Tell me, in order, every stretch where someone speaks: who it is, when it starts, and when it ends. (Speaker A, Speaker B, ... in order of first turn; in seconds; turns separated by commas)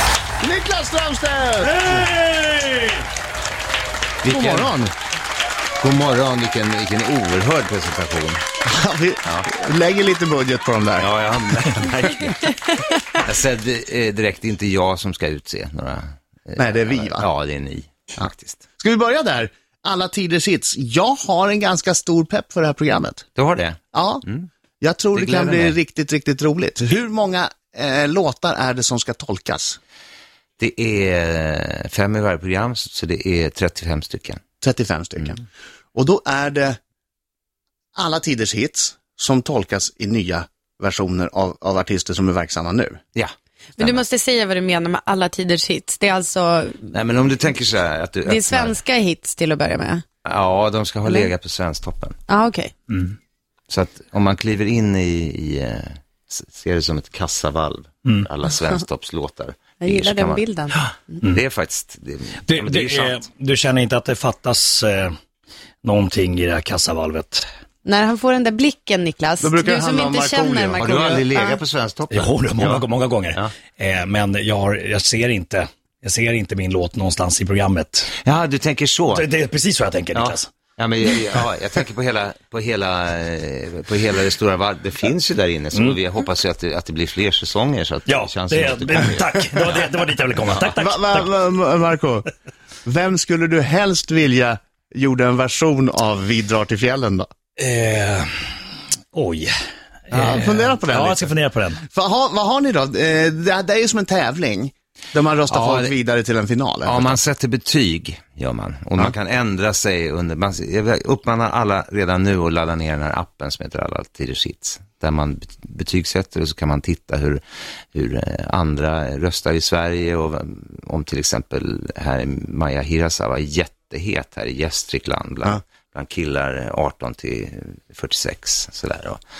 Speaker A: 0.4-2.1, Speaker B: 1.6-3.0, Speaker C: 4.2-4.7, Speaker A: 4.2-4.9, Speaker C: 5.8-8.4, Speaker A: 8.7-11.1, Speaker C: 11.0-12.5, Speaker C: 13.2-18.6, Speaker A: 16.6-17.3, Speaker A: 18.2-23.2, Speaker C: 23.3-24.5, Speaker A: 23.9-24.2, Speaker A: 24.8-29.8, Speaker C: 25.1-25.8, Speaker C: 30.6-34.4, Speaker A: 34.6-35.4, Speaker A: 35.9-36.8, Speaker A: 37.9-43.0, Speaker C: 43.1-44.0, Speaker D: 43.8-46.9, Speaker C: 46.9-48.8, Speaker D: 48.2-50.0, Speaker C: 50.2-52.2, Speaker D: 52.3-52.7, Speaker B: 52.9-53.1, Speaker C: 53.7-63.2, Speaker D: 59.8-61.2, Speaker B: 62.5-65.2, Speaker B: 65.8-67.5, Speaker D: 67.8-71.6, Speaker A: 69.4-71.6, Speaker C: 70.8-73.5, Speaker B: 72.1-78.1, Speaker C: 78.2-79.3, Speaker B: 79.1-80.5, Speaker C: 80.1-89.6, Speaker B: 88.1-91.3, Speaker A: 90.6-92.3, Speaker A: 92.8-97.3, Speaker B: 97.6-98.3, Speaker B: 99.1-99.5, Speaker B: 100.1-101.8, Speaker A: 100.1-101.3, Speaker A: 101.8-107.2, Speaker C: 105.5-105.9, Speaker C: 106.8-117.4, Speaker C: 117.9-129.2